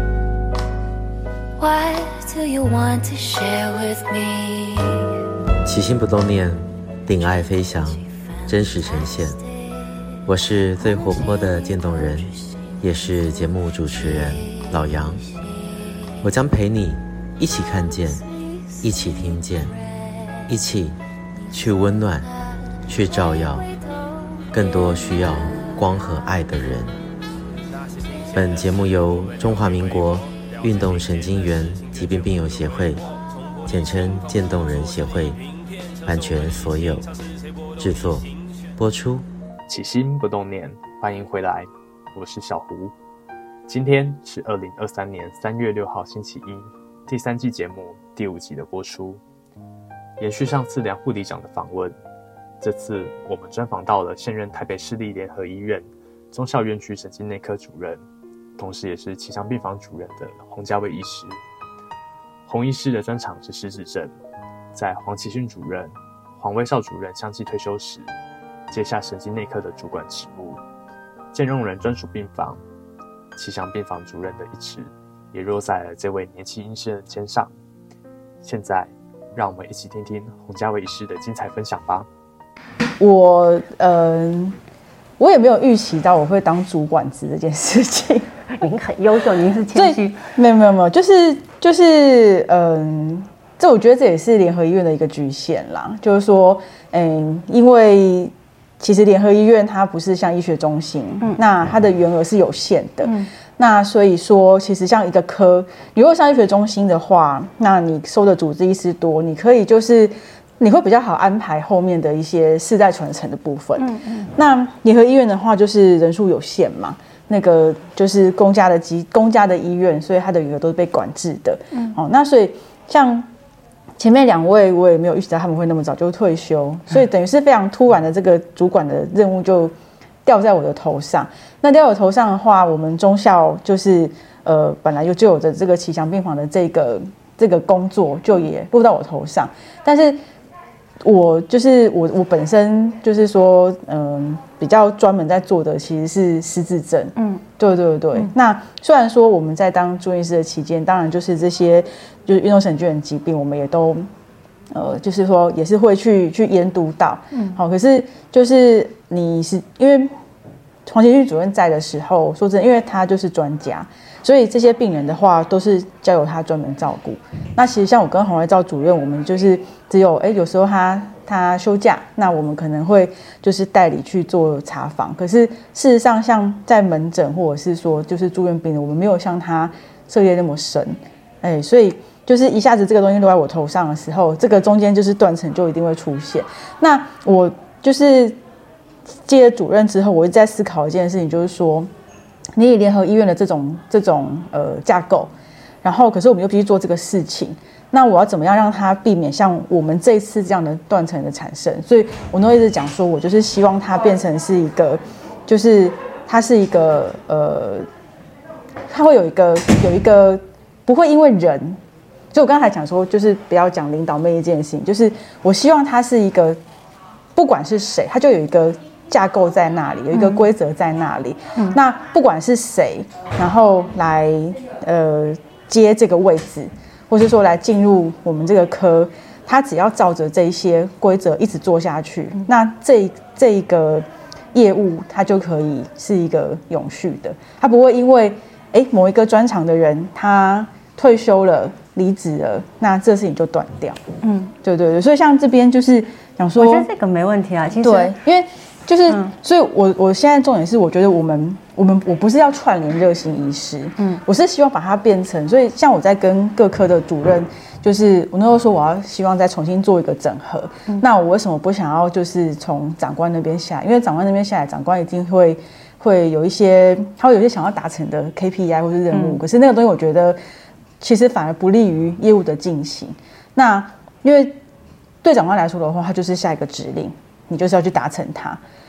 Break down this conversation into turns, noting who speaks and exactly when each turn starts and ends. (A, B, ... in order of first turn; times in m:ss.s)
0:01.6-0:05.1 A
0:05.6-0:09.4 B
0:10.2-0:15.2 B
0:16.2-0:18.2 B
0:18.8-0:19.7 B
0:20.5-0:21.0 B
0:21.5-0:22.3 B
0:22.9-0:23.7 B
0:24.5-0:27.0 B
0:28.3-0:33.0 B
0:33.6-0:35.4 B
0:36.0-0:37.1 B
0:37.8-0:39.2 B
0:39.7-0:42.9 C
0:43.7-0:49.2 C
0:50.2-0:51.9 C
0:52.6-0:58.0 C
0:58.6-1:01.4 C
1:02.4-1:04.1 C
1:04.7-1:08.1 C
1:08.7-1:10.6 C
1:11.3-1:12.6 C
1:13.3-1:17.5 C
1:18.4-1:22.1 C
1:23.0-1:24.6 D
1:25.2-1:28.3 D
1:28.5-1:30.2 E
1:29.7-2:03.3 D
1:43.0-1:43.3 E
1:53.8-1:54.3 E
2:01.7-2:02.0 E
2:04.0-2:09.7 D
2:10.2-2:20.2 D
2:21.0-2:34.1 D
2:27.2-2:27.4 E
2:34.7-2:40.1 D
2:37.3-2:37.6 E
2:40.8-3:08.4 D
3:09.1-3:11.9 D
3:12.5-3:15.3 D
3:15.8-3:27.9 D
3:28.9-3:31.8 D
3:32.3-3:36.6 D
3:37.3-4:04.0 D
3:40.1-3:40.5 E
4:04.2-4:04.5 E
4:04.6-4:06.9 D
4:06.6-4:08.2 E
4:07.8-4:30.4 D
4:09.1-4:09.3 E
4:29.1-4:29.4 E
4:31.0-4:34.6 D
4:35.2-4:38.6 D